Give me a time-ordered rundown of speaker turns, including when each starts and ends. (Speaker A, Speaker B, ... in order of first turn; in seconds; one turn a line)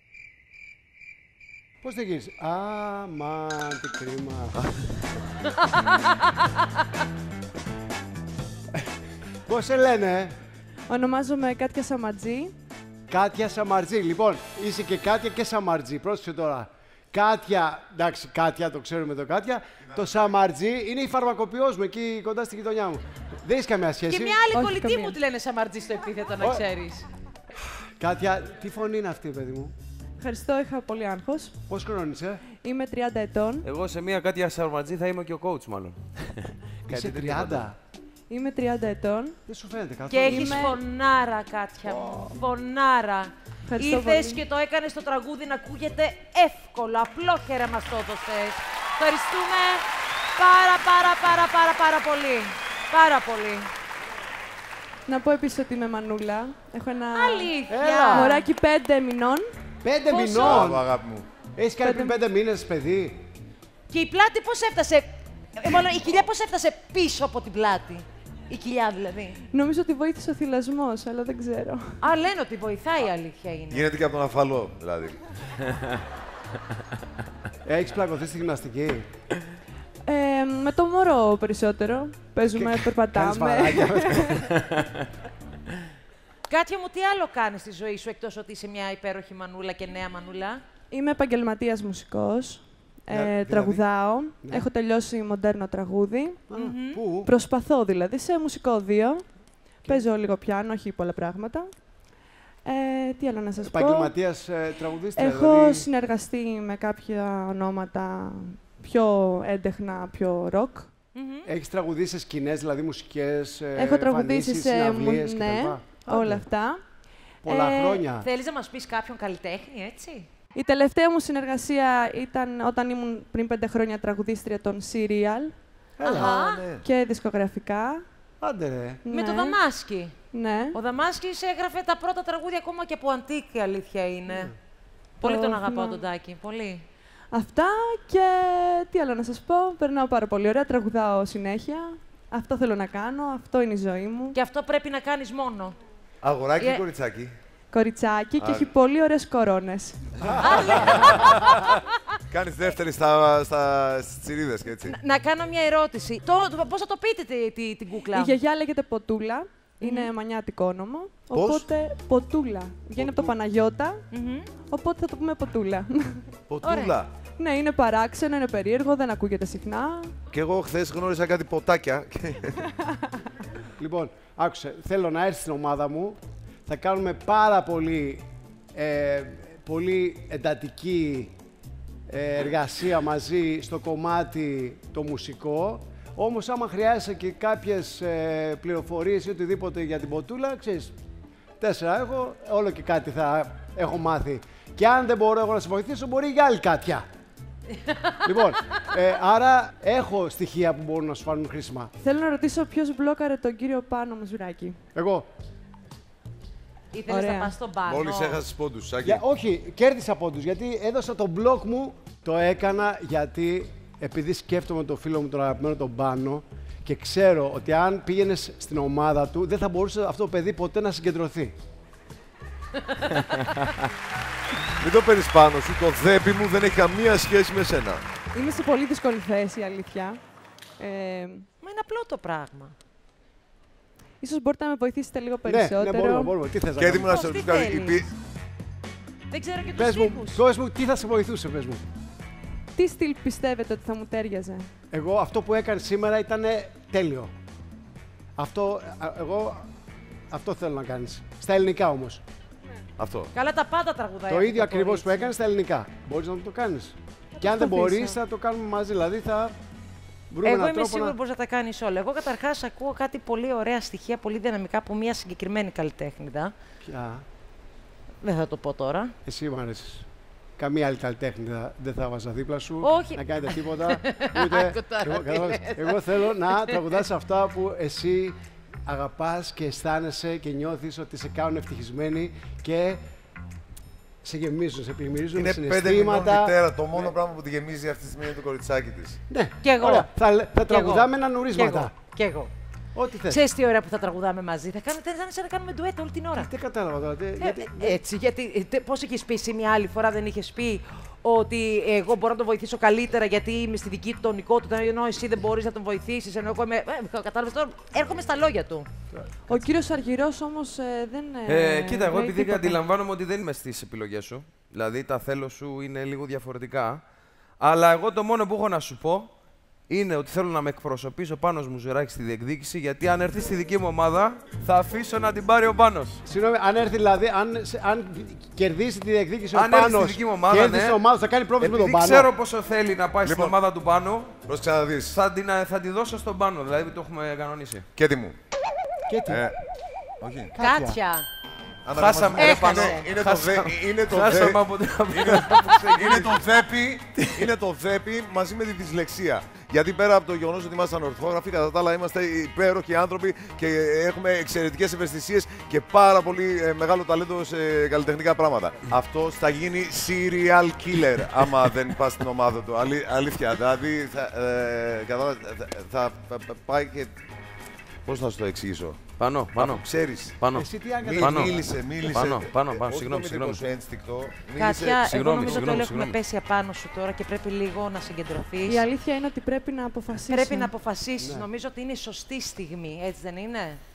Speaker A: 1.8-4.6
Speaker B: 4.6-4.9
Speaker A: 9.4-10.3
Speaker C: 10.9-12.5
Speaker A: 13.1-24.4
Speaker D: 24.1-27.1
Speaker C: 24.5-25.2
Speaker A: 28.0-29.7
Speaker C: 30.2-31.5
Speaker A: 31.7-32.4
Speaker C: 32.6-33.7
Speaker E: 33.6-37.7
Speaker A: 36.9-37.8
Speaker C: 38.3-39.4
Speaker A: 39.5-40.7
Speaker D: 40.1-53.7
Speaker C: 40.2-40.8
Speaker A: 41.9-42.3
Speaker C: 43.7-44.4
Speaker C: 55.0-57.5
Speaker D: 57.1-58.5
Speaker A: 57.7-58.4
Speaker C: 58.1-59.4
Speaker A: 59.8-60.9
Speaker D: 60.1-60.7
Speaker B: 60.4-61.3
Speaker A: 61.5-63.2
Speaker C: 61.8-62.2
Speaker D: 63.9-69.4
Speaker C: 69.5-72.0
Speaker D: 72.0-73.8
Speaker B: 73.7-75.2
Speaker A: 77.6-79.1
Speaker C: 80.0-84.5
Speaker A: 82.5-84.5
Speaker D: 86.5-90.6
Speaker C: 90.9-96.4
Speaker A: 93.1-93.8
Speaker A: 94.4-94.7
Speaker A: 96.5-97.3
Speaker D: 96.5-97.0
Speaker C: 97.2-99.2
Speaker C: 99.8-101.7
Speaker C: 102.6-104.1
Speaker A: 103.6-105.9
Speaker C: 105.2-110.9
Speaker D: 111.1-111.5
Speaker A: 111.4-116.5
Speaker C: 113.8-116.8
Speaker A: 117.4-118.3
Speaker C: 117.4-118.0
Speaker D: 118.2-120.3
Speaker C: 120.5-125.5
Speaker A: 126.0-126.4
Speaker D: 126.0-126.7
Speaker B: 126.0-126.8
Speaker C: 126.8-128.0
Speaker A: 128.4-129.0
Speaker C: 129.0-129.6
Speaker D: 129.1-130.1
Speaker C: 130.3-130.8
Speaker D: 130.7-134.5
Speaker A: 134.3-134.5
Speaker D: 135.2-136.8
Speaker C: 135.2-136.0
Speaker C: 137.3-144.3
Speaker D: 144.3-145.8
Speaker B: 146.2-147.3
Speaker D: 146.6-146.8
Speaker C: 147.7-150.0
Speaker B: 148.4-148.7
Speaker D: 150.4-151.8
Speaker B: 152.3-155.0
Speaker D: 154.8-158.4
Speaker C: 158.1-164.0
Speaker D: 159.8-160.1
Speaker B: 161.3-161.7
Speaker B: 163.0-163.3
Speaker D: 164.1-164.5
Speaker C: 164.7-166.2
Speaker B: 166.5-167.1
Speaker D: 166.6-167.0
Speaker C: 167.4-170.1
Speaker B: 170.3-172.6
Speaker A: 173.8-181.3
Speaker A: 182.1-190.9
Speaker A: 191.6-197.0
Speaker D: 197.8-198.2
Speaker A: 198.2-201.9
Speaker C: 202.0-204.8
Speaker A: 204.9-205.3
Speaker D: 206.9-208.4
Speaker C: 207.1-207.5
Speaker B: 207.8-209.2
Speaker A: 209.0-221.5
Speaker D: 222.9-223.4
Speaker B: 224.8-228.0
Speaker C: 228.3-230.2
Speaker C: 230.8-231.5
Speaker D: 231.6-232.7
Speaker C: 234.2-236.3
Speaker A: 235.4-237.1
Speaker B: 236.8-238.1
Speaker D: 237.0-238.1
Speaker D: 239.3-240.4
Speaker A: 239.8-241.8
Speaker C: 242.7-244.7
Speaker A: 244.9-247.3
Speaker A: 248.4-249.7
Speaker A: 250.3-252.2
Speaker B: 253.0-253.3
Speaker D: 253.3-255.3
Speaker A: 254.3-259.6
Speaker C: 257.4-258.1
Speaker A: 260.3-261.1
Speaker D: 260.4-266.5
Speaker A: 266.8-267.2
Speaker D: 268.2-269.1
Speaker A: 269.2-270.1
Speaker A: 270.6-283.0
Speaker D: 272.8-276.8
Speaker A: 284.2-287.1
Speaker B: 285.3-289.2
Speaker A: 289.3-291.9
Speaker D: 289.6-290.1
Speaker D: 290.6-292.5
Speaker A: 292.9-293.4
Speaker D: 293.2-296.5
Speaker A: 296.3-298.0
Speaker D: 297.4-308.9
Speaker C: 309.5-312.8
Speaker E: 311.5-317.0
Speaker E: 317.6-319.3
Speaker E: 319.9-326.2
Speaker A: 326.2-332.3
Speaker E: 329.5-331.0
Speaker E: 331.6-334.4
Speaker B: 333.2-333.6
Speaker B: 334.4-335.2
Speaker E: 335.1-337.9
Speaker B: 337.9-338.4
Speaker A: 339.1-339.4
Speaker B: 339.3-339.6
Speaker B: 340.2-340.5
Speaker A: 340.5-341.0
Speaker D: 340.6-341.2
Speaker B: 341.8-367.1
Speaker E: 341.9-346.4
Speaker D: 342.3-343.1
Speaker E: 347.2-347.5
Speaker B: 368.0-370.4
Speaker E: 369.2-369.8
Speaker E: 370.4-373.6
Speaker A: 370.5-371.6
Speaker B: 371.0-375.6
Speaker D: 374.5-378.9
Speaker E: 375.0-376.1
Speaker C: 378.6-380.7
Speaker D: 380.3-383.8
Speaker A: 381.2-381.5